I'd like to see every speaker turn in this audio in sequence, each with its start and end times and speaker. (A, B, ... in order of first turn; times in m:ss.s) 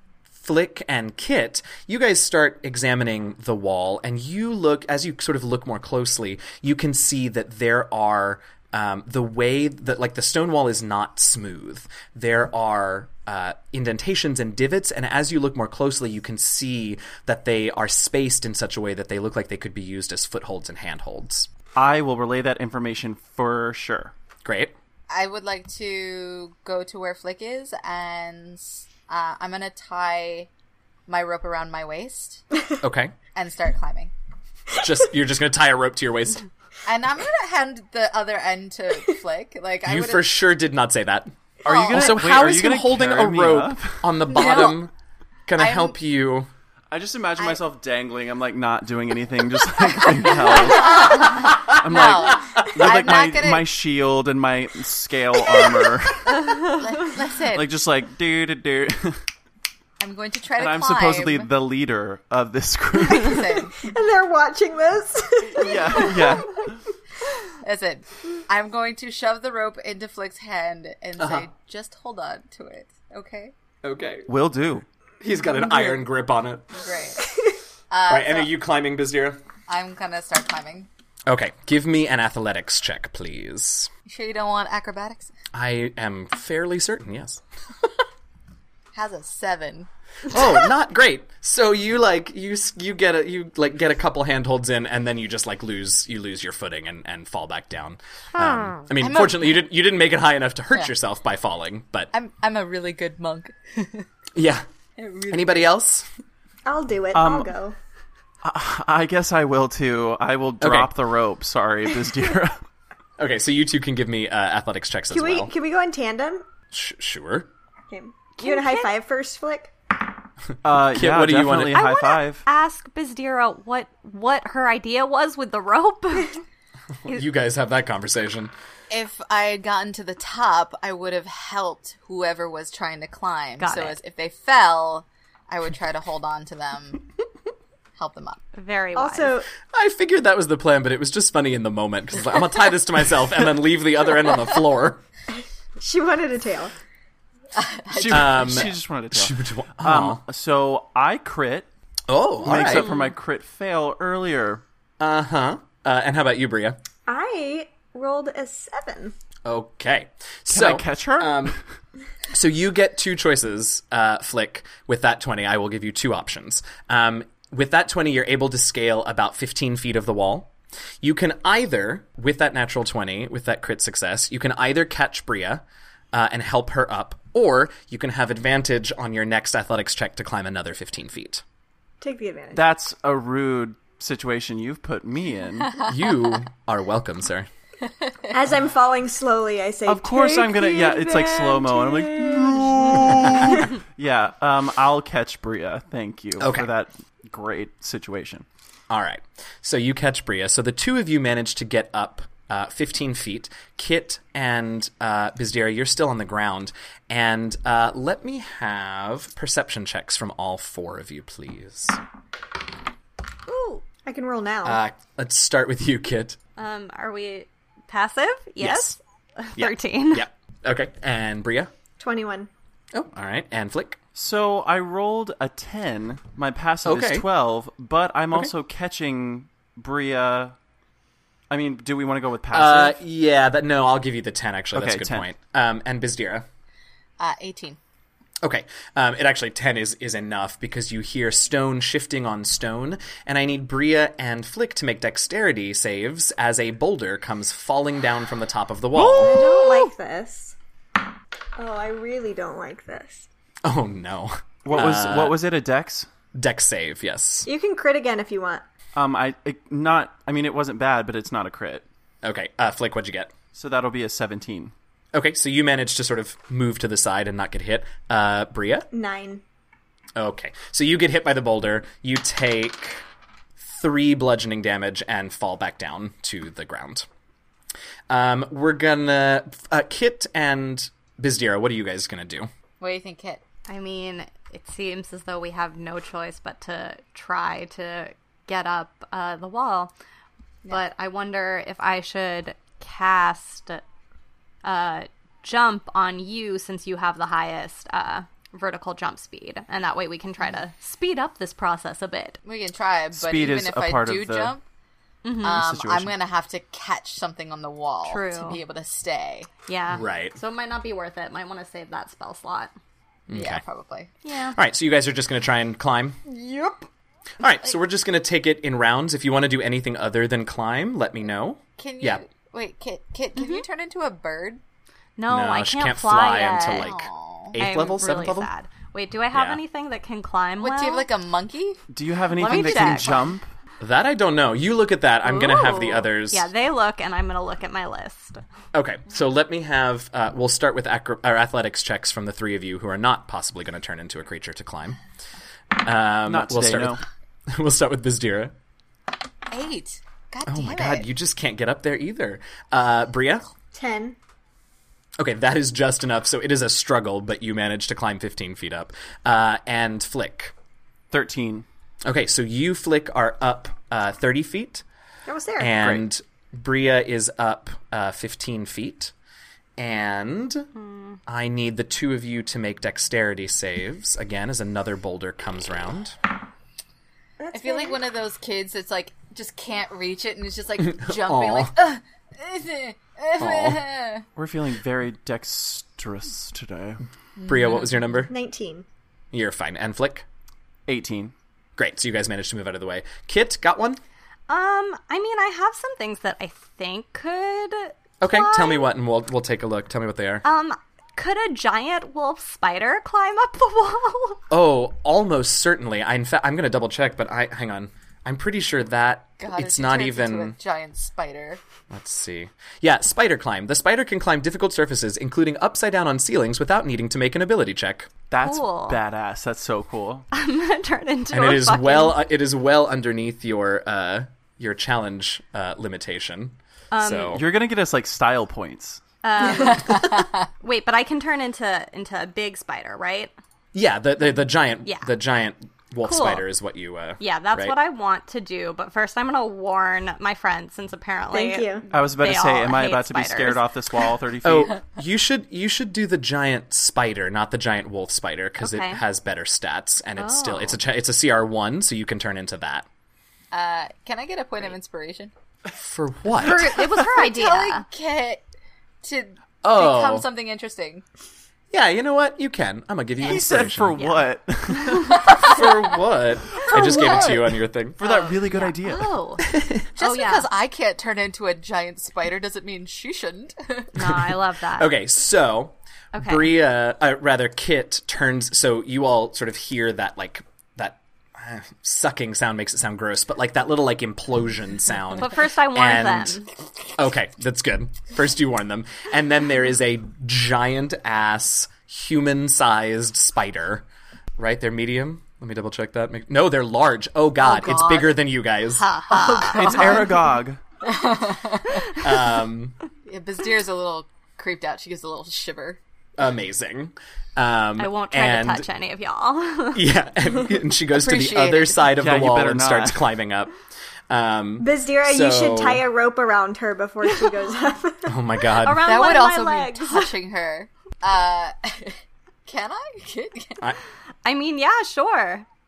0:00.4-0:21.5 A
0:21.8-0:24.1 B
0:24.4-0:24.8 A
0:25.1-0:30.5 C
0:31.1-0:32.4 C
0:32.8-0:33.1 A
0:33.3-0:34.1 C
0:34.7-0:36.5 A
0:36.9-0:40.4 C
0:39.8-0:41.3 A
0:41.6-0:42.3 C
0:41.6-0:44.2 B
0:41.9-0:44.9 A
0:44.3-0:44.9 C
0:45.5-0:46.5 A
0:45.6-0:46.0 C
0:46.9-0:56.7 B
0:47.4-0:47.6 C
0:50.6-0:53.7 C
0:56.7-0:57.7 C
0:57.5-0:59.2 B
1:00.0-1:01.5 C
1:00.6-1:03.6 B
1:03.1-1:03.8 C
1:03.8-1:06.4 D
1:05.4-1:06.8 B
1:07.6-1:13.5 C
1:11.2-1:11.5 A
1:13.8-1:14.3 A
1:14.3-1:14.9 B
1:15.2-1:16.7 A
1:16.8-1:17.4 C
1:17.9-1:18.5 C
1:18.1-1:19.4 A
1:19.7-1:20.9 C
1:21.3-1:23.9 A
1:24.1-1:25.3 C
1:25.5-1:27.4 A
1:28.9-1:29.9 C
1:30.3-1:42.1 A
1:38.9-1:39.7 C
1:42.1-1:44.1 C
1:44.4-1:44.7 A
1:45.0-1:45.7 C
1:45.3-1:46.1 A
1:46.6-1:47.8 D
1:47.1-1:47.5 B
1:48.4-1:52.6 B
1:50.6-1:50.9 A
1:53.2-1:55.5 A
1:55.1-1:56.5 D
1:56.7-1:57.5 A
1:57.9-1:59.7 D
1:58.4-1:58.9 E
2:00.6-2:02.4 B
2:00.7-2:01.8 A
2:01.7-2:06.4 E
2:07.1-2:08.5 A
2:08.9-2:17.0 C
2:13.6-2:14.0 E
2:18.0-2:18.4 C
2:18.5-2:19.4 E
2:19.0-2:19.5 D
2:19.7-2:25.0 A
2:25.8-2:26.7 D
2:27.6-2:28.7 C
2:27.9-2:31.7 B
2:28.1-2:30.2 A
2:32.1-2:32.9 A
2:32.4-2:34.6 B
2:32.7-2:33.1 E
2:35.0-2:36.8 A
2:37.1-2:39.2 D
2:39.4-2:41.6 A
2:40.5-2:41.6 B
2:42.3-3:01.4 A
3:02.0-3:02.7 D
3:02.5-3:05.8 B
3:05.8-3:07.5 A
3:08.3-3:13.6 D
3:09.9-3:18.4 B
3:16.4-3:16.7 A
3:18.9-3:32.0 A
3:33.5-3:33.8 E
3:34.1-3:34.8 D
3:34.6-3:36.4 A
3:36.6-3:40.3 E
3:38.6-3:39.0 A
3:39.6-3:41.7 A
3:42.0-3:42.5 D
3:42.9-3:44.0 A
3:44.2-3:50.6 B
3:46.8-3:47.2 A
3:51.5-3:53.0 B
3:52.5-3:56.5 A
3:54.7-3:55.3 B
3:57.2-3:57.8 C
3:58.4-4:09.4 A
4:08.9-4:09.9 B
4:09.2-4:10.6 D
4:11.6-4:13.3 D
4:13.6-4:15.4 A
4:14.6-4:16.1 B
4:16.4-4:17.5 A
4:17.4-4:18.6 D
4:19.0-4:21.8 B
4:22.2-4:23.3 A
4:23.5-4:24.7 B
4:25.1-4:28.9 A
4:28.9-4:29.4 D
4:30.2-4:33.0 A
4:33.6-4:37.1 A
4:38.1-4:42.5 A
4:42.8-4:43.4 C
4:43.7-4:49.9 E
4:50.7-4:53.8 E
4:54.6-5:02.4 E
5:02.4-5:04.6 C
5:03.1-5:04.6 B
5:05.2-5:05.6 E
5:05.4-5:09.5 C
5:05.5-5:06.2 B
5:08.1-5:08.6 E
5:09.7-5:12.7 E
5:09.9-5:10.4 A
5:13.3-5:13.6 A
5:13.3-5:14.1 C
5:14.2-5:14.6 E
5:14.5-5:16.2 A
5:16.3-5:16.8 C
5:17.4-5:22.2 A
5:21.8-5:24.6 C
5:23.4-5:23.6 E
5:25.2-5:26.9 E
5:25.3-5:28.5 A
5:26.7-5:27.6 C
5:27.6-5:31.1 E
5:29.3-5:29.6 A
5:30.6-5:31.8 C
5:31.9-5:33.5 B
5:32.3-5:33.2 E
5:32.5-5:33.0 C
5:33.8-5:36.5 A
5:35.2-5:38.4 E
5:38.7-5:45.0 A
5:45.8-5:48.5 A
5:46.3-5:47.0 B
5:49.5-5:51.1 C
5:50.5-5:53.5 A
5:53.7-5:54.2 D
5:55.2-6:00.5 A
6:01.1-6:01.6 B
6:02.0-6:04.8 A
6:05.3-6:05.8 D
6:05.6-6:09.1 A
6:09.8-6:10.7 A
6:10.8-6:11.2 E
6:11.3-6:16.2 A
6:17.4-6:18.0 D
6:17.5-6:24.3 C
6:20.8-6:21.7 A
6:23.4-6:23.8 A
6:24.4-6:27.0 B
6:27.4-6:28.3 A
6:28.3-6:28.9 D
6:29.3-6:30.3 A
6:30.9-6:31.3 B
6:31.8-6:34.0 A
6:34.5-6:38.9 E
6:38.2-6:40.4 A
6:40.4-6:44.4 E
6:44.5-6:50.6 A
6:49.4-6:51.6 C
6:51.9-6:58.1 A
6:58.3-7:00.3 B
6:58.4-6:59.0 E
7:00.3-7:02.2 E
7:01.3-7:07.4 A
7:06.9-7:07.4 E
7:07.3-7:09.0 B
7:09.2-7:13.3 E
7:09.4-7:10.4 C
7:13.7-7:17.8 A
7:16.0-7:16.5 E
7:17.2-7:23.6 E
7:21.3-7:21.8 D
7:21.9-7:24.8 B
7:24.4-7:32.9 A
7:28.6-7:29.0 E
7:30.2-7:30.8 E
7:33.5-7:35.3 C
7:35.8-7:36.7 A
7:36.4-7:37.9 E
7:36.4-7:38.4 C
7:39.0-7:41.0 C
7:39.6-7:40.3 A
7:41.7-7:44.0 A
7:43.2-7:45.4 B
7:44.0-7:45.6 E
7:45.4-7:48.0 A
7:46.7-7:47.4 E
7:46.8-7:47.4 B
7:46.9-7:47.3 C
7:48.0-7:49.2 B
7:48.0-7:50.5 E
7:49.5-7:49.9 A
7:50.0-7:53.9 C
7:54.0-7:54.9 E
7:54.0-8:06.4 A
7:56.2-7:56.6 E
8:05.2-8:06.5 E
8:07.0-8:13.8 A
8:14.4-8:18.9 A
8:17.4-8:18.3 C
8:18.8-8:20.0 E
8:19.1-8:20.1 C
8:19.5-8:20.6 B
8:20.8-8:22.0 C
8:22.0-8:22.8 A
8:23.1-8:25.8 C
8:26.2-8:28.7 A
8:27.8-8:29.8 E
8:29.7-8:33.5 A
8:30.9-8:31.9 C
8:32.0-8:33.1 B
8:34.1-8:35.8 A
8:34.6-8:38.2 D
8:38.1-8:38.9 A
8:38.5-8:40.2 E
8:38.8-8:43.6 C
8:44.2-8:45.5 E